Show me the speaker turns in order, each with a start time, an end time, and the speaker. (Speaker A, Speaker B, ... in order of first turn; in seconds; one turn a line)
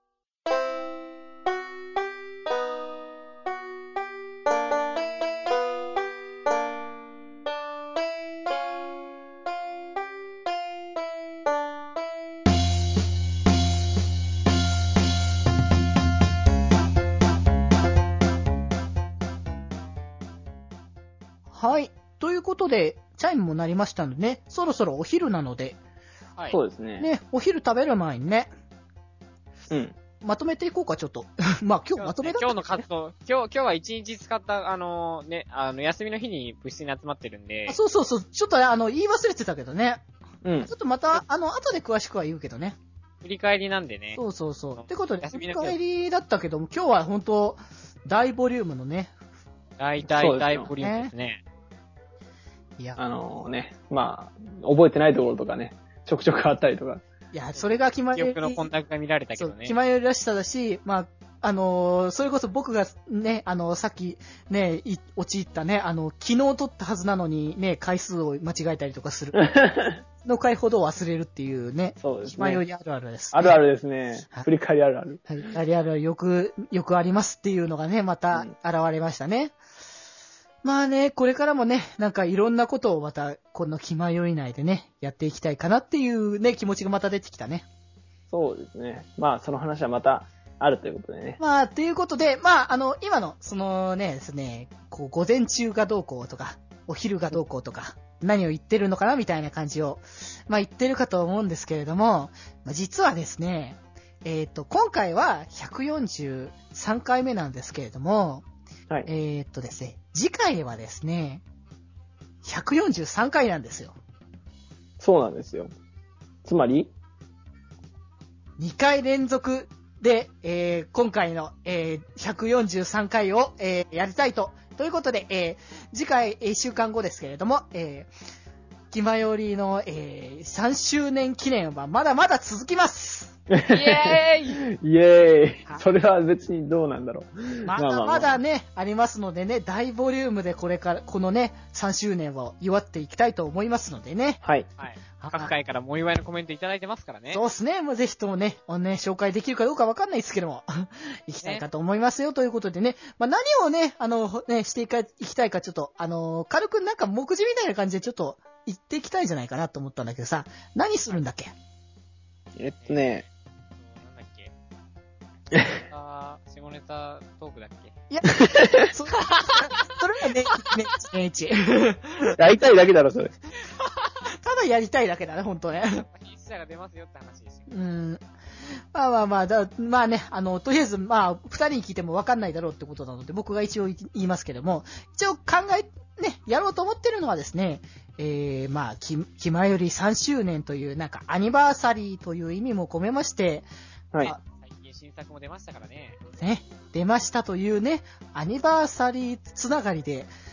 Speaker A: 21.5-25.8
Speaker B: 26.5-27.1
Speaker A: 27.0-28.5
Speaker B: 29.7-29.9
Speaker A: 30.2-32.8
Speaker C: 32.0-37.8
Speaker A: 37.7-40.0
Speaker B: 40.4-40.7
Speaker A: 40.6-42.8
Speaker C: 43.2-44.2
Speaker A: 44.1-49.1
Speaker C: 44.8-45.8
Speaker C: 49.8-51.4
Speaker B: 50.1-50.7
Speaker A: 50.8-51.1
Speaker B: 53.0-57.0
Speaker A: 57.3-58.6
Speaker C: 57.5-59.8
Speaker A: 59.4-69.5
Speaker B: 69.3-70.0
Speaker A: 70.2-73.6
Speaker B: 72.0-72.6
Speaker B: 73.3-75.3
Speaker A: 75.3-79.5
Speaker A: 80.6-87.7
Speaker B: 88.3-91.4
Speaker A: 91.4-108.5
Speaker A: 109.1-111.4
Speaker A: 112.4-114.0
Speaker B: 115.0-115.7
Speaker B: 116.4-116.9
Speaker A: 118.6-128.1
Speaker A: 128.9-133.4
Speaker B: 133.5-134.2
Speaker C: 133.6-134.6
Speaker B: 134.7-138.3
Speaker A: 137.7-144.4
Speaker C: 144.8-147.4
Speaker A: 145.2-145.5
Speaker A: 147.3-161.5
Speaker B: 162.6-163.2
Speaker C: 162.8-163.2
Speaker C: 163.8-164.5
Speaker C: 165.6-167.9
Speaker A: 168.1-172.3
Speaker B: 168.4-168.9
Speaker C: 169.1-170.8
Speaker B: 172.3-173.3
Speaker C: 173.7-174.2
Speaker A: 174.2-176.1
Speaker C: 175.9-177.8
Speaker A: 177.7-178.2
Speaker A: 178.9-193.7
Speaker C: 194.6-196.2
Speaker A: 196.4-200.3